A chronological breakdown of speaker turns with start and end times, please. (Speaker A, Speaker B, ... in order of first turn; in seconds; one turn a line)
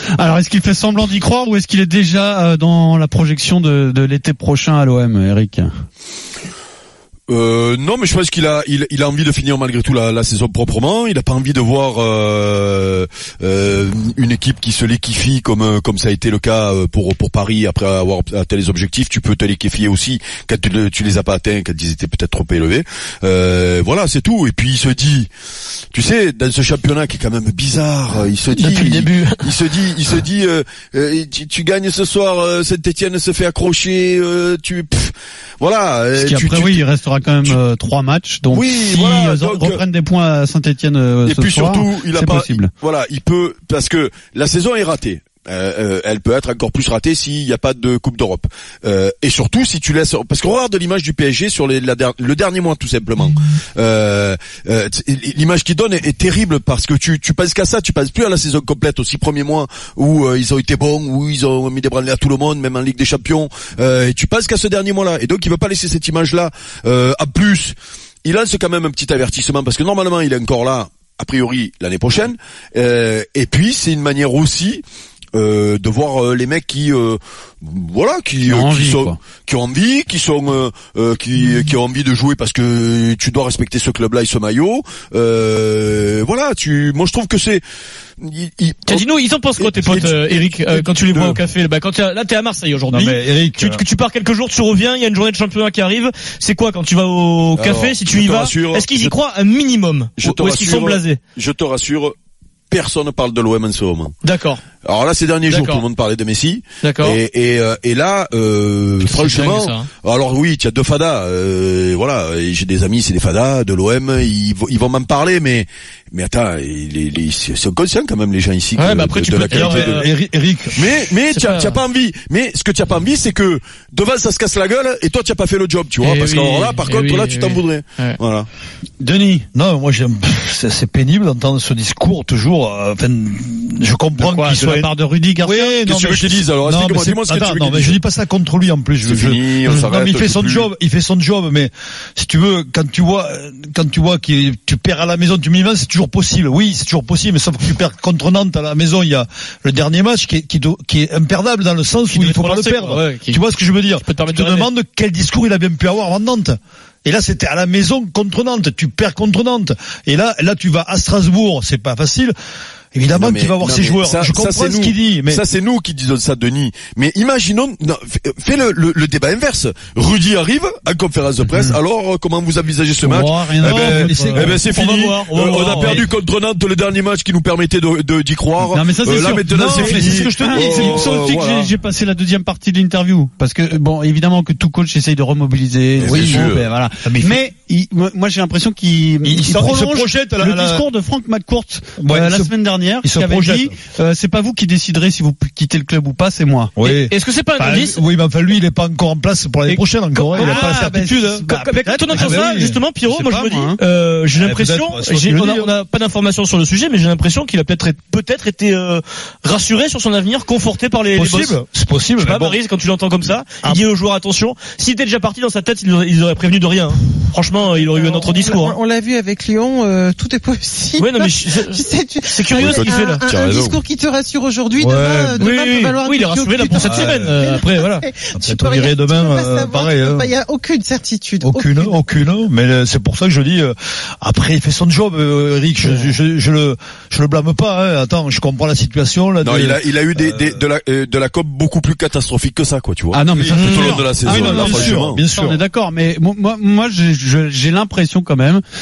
Speaker A: 0.2-5.7
Speaker B: 7.3-25.3
Speaker B: 25.9-36.8
Speaker C: 28.6-29.4
Speaker A: 36.1-42.7
Speaker B: 38.5-39.8
Speaker B: 41.2-87.6
Speaker A: 78.4-79.2
Speaker B: 88.2-89.0
Speaker C: 88.9-101.2
Speaker B: 89.6-90.2
Speaker B: 90.7-91.4
Speaker D: 92.9-93.8
Speaker B: 97.5-99.1
Speaker B: 100.2-102.1
Speaker B: 102.7-104.1
Speaker C: 104.2-104.6
Speaker B: 104.8-120.0
Speaker C: 105.5-105.8
Speaker C: 106.8-107.2
Speaker C: 109.0-109.9
Speaker C: 118.8-120.1
Speaker D: 119.5-120.8
Speaker B: 120.8-128.5
Speaker C: 121.3-121.8
Speaker C: 126.0-128.2
Speaker A: 129.0-129.5
Speaker D: 129.5-134.9
Speaker A: 134.2-135.8
Speaker D: 135.4-162.3
Speaker B: 135.8-138.0
Speaker B: 139.0-140.7
Speaker C: 152.1-153.4
Speaker C: 154.0-154.7
Speaker D: 162.9-165.4
Speaker B: 163.1-181.7
Speaker A: 171.5-171.8
Speaker A: 173.0-174.5
Speaker D: 173.6-174.6
Speaker C: 174.7-176.1
Speaker A: 178.7-196.7
Speaker D: 179.5-181.0
Speaker B: 186.0-186.7
Speaker D: 186.0-186.4
Speaker D: 187.0-187.4
Speaker D: 189.2-190.8
Speaker D: 192.0-193.8
Speaker D: 196.8-201.5
Speaker C: 196.8-198.0
Speaker C: 199.7-200.8
Speaker A: 200.3-203.8
Speaker C: 201.5-211.6
Speaker D: 202.1-202.8
Speaker D: 204.3-205.7
Speaker D: 211.2-212.6
Speaker C: 212.2-218.8
Speaker E: 217.6-231.9
Speaker C: 221.0-223.2
Speaker B: 222.5-223.8
Speaker D: 224.8-225.4
Speaker C: 225.4-228.1
Speaker D: 226.8-227.4
Speaker D: 228.3-230.3
Speaker D: 231.4-240.6
Speaker B: 239.4-245.2
Speaker A: 243.1-248.6
Speaker D: 243.4-245.6
Speaker C: 243.6-244.0